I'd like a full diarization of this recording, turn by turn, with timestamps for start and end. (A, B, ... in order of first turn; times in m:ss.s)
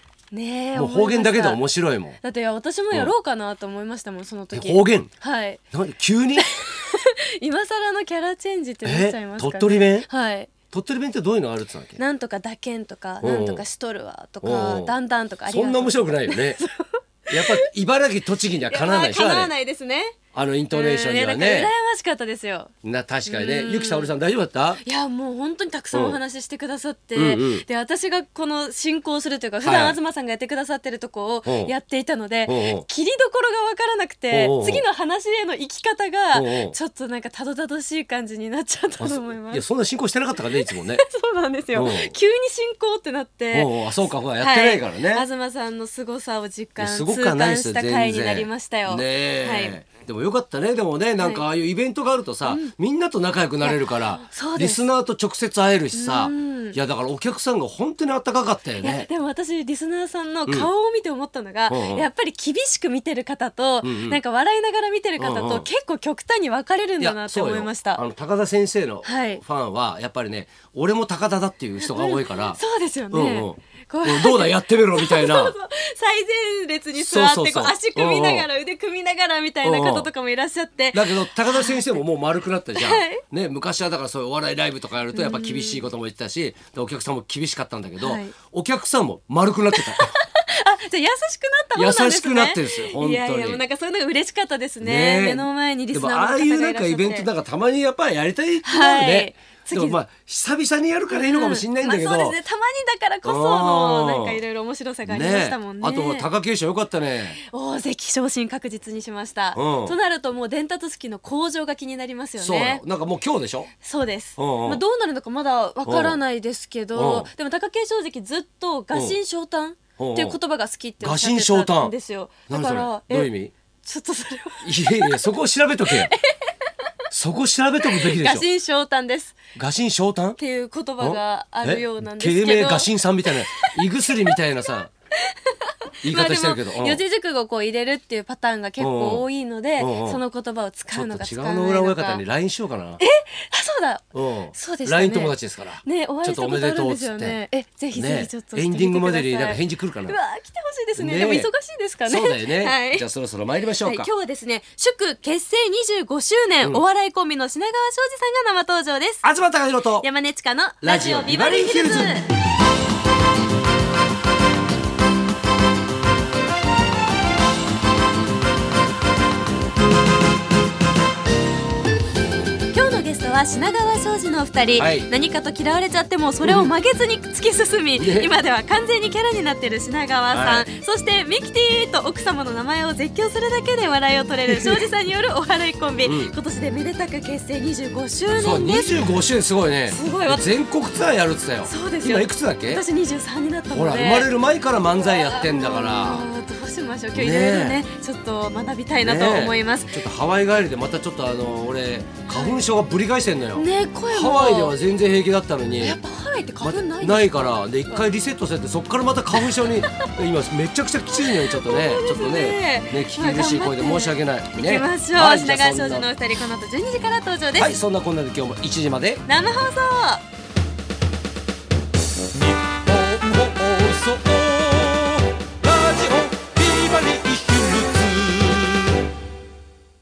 0:00.3-0:01.6 A
0:00.7-0:02.2 B
0:02.2-0:05.6 A
0:04.5-0:05.1 B
0:05.7-0:06.5 B
0:06.4-0:10.5 A
0:08.8-0:10.1 B
0:10.7-0:12.0 B
0:12.0-0:17.6 A
0:13.2-0:13.6 B
0:14.4-0:14.9 B
0:15.5-0:16.6 B
0:17.3-0:19.5 B
0:18.7-0:20.2 A
0:20.3-0:21.7 B
0:20.7-0:22.7 A
0:22.8-0:24.8 B
0:23.2-0:24.1 A
0:24.8-0:39.6 A
0:25.9-0:26.2 B
0:27.1-0:27.6 B
0:29.6-0:30.0 B
0:31.4-0:31.7 B
0:32.4-0:32.8 B
0:34.3-0:34.8 B
0:36.3-0:36.8 B
0:39.0-0:41.0 B
0:40.6-0:49.8 A
0:41.7-0:42.1 B
0:43.5-0:45.2 B
0:46.8-0:59.1 B
0:51.2-0:51.4 A
0:52.4-0:52.7 A
0:53.6-0:54.8 A
0:55.9-0:56.8 A
0:58.8-1:08.0 A
1:01.7-1:02.1 B
1:03.8-1:04.2 B
1:05.2-1:05.7 B
1:07.0-1:12.6 B
1:09.0-1:09.4 A
1:11.8-1:22.0 A
1:13.1-1:15.6 B
1:17.0-1:18.4 B
1:19.6-1:20.1 B
1:20.9-1:30.1 B
1:22.7-1:23.2 A
1:25.1-1:25.8 A
1:28.0-1:28.3 A
1:29.7-1:37.3 A
1:31.7-1:33.6 B
1:34.8-1:42.4 B
1:38.6-1:40.0 A
1:41.1-1:46.3 A
1:43.2-1:44.4 B
1:45.0-1:47.4 B
1:47.4-1:52.8 A
1:49.5-1:50.0 B
1:52.4-1:53.7 B
1:53.8-2:03.3 A
1:54.4-1:54.8 B
1:55.8-1:56.2 B
1:56.9-1:57.3 B
2:00.0-2:00.4 B
2:01.0-2:01.9 B
2:02.5-2:03.5 B
2:03.8-2:05.3 A
2:04.6-2:06.1 B
2:05.9-2:06.5 A
2:07.1-2:08.4 B
2:07.8-2:09.4 A
2:09.5-2:10.4 B
2:10.4-2:14.4 A
2:11.0-2:14.9 B
2:15.3-2:22.2 A
2:16.0-2:17.0 B
2:18.8-2:19.2 B
2:19.8-2:20.2 B
2:20.9-2:23.0 B
2:23.0-2:33.0 A
2:24.1-2:27.4 B
2:27.9-2:30.2 B
2:31.0-2:31.5 B
2:32.0-2:34.1 B
2:33.8-2:39.2 A
2:39.2-2:40.0 B
2:40.0-2:42.3 A
2:40.8-2:42.2 B
2:52.7-3:09.0 A
2:54.8-2:55.1 B
2:56.4-2:56.7 B
2:58.0-2:58.3 B
3:00.3-3:00.7 B
3:06.0-3:06.3 B
3:08.4-3:12.8 B
3:09.9-3:10.4 A
3:11.6-3:14.3 A
3:13.7-3:16.2 B
3:15.0-3:20.0 A
3:17.1-3:17.8 B
3:19.0-3:26.0 B
3:22.3-3:22.6 A
3:23.5-3:24.7 A
3:25.8-3:28.0 A
3:26.6-3:36.1 B
3:29.3-3:30.1 A
3:31.3-3:37.7 A
3:37.6-3:39.2 B
3:39.2-3:40.2 A
3:42.5-3:48.8 B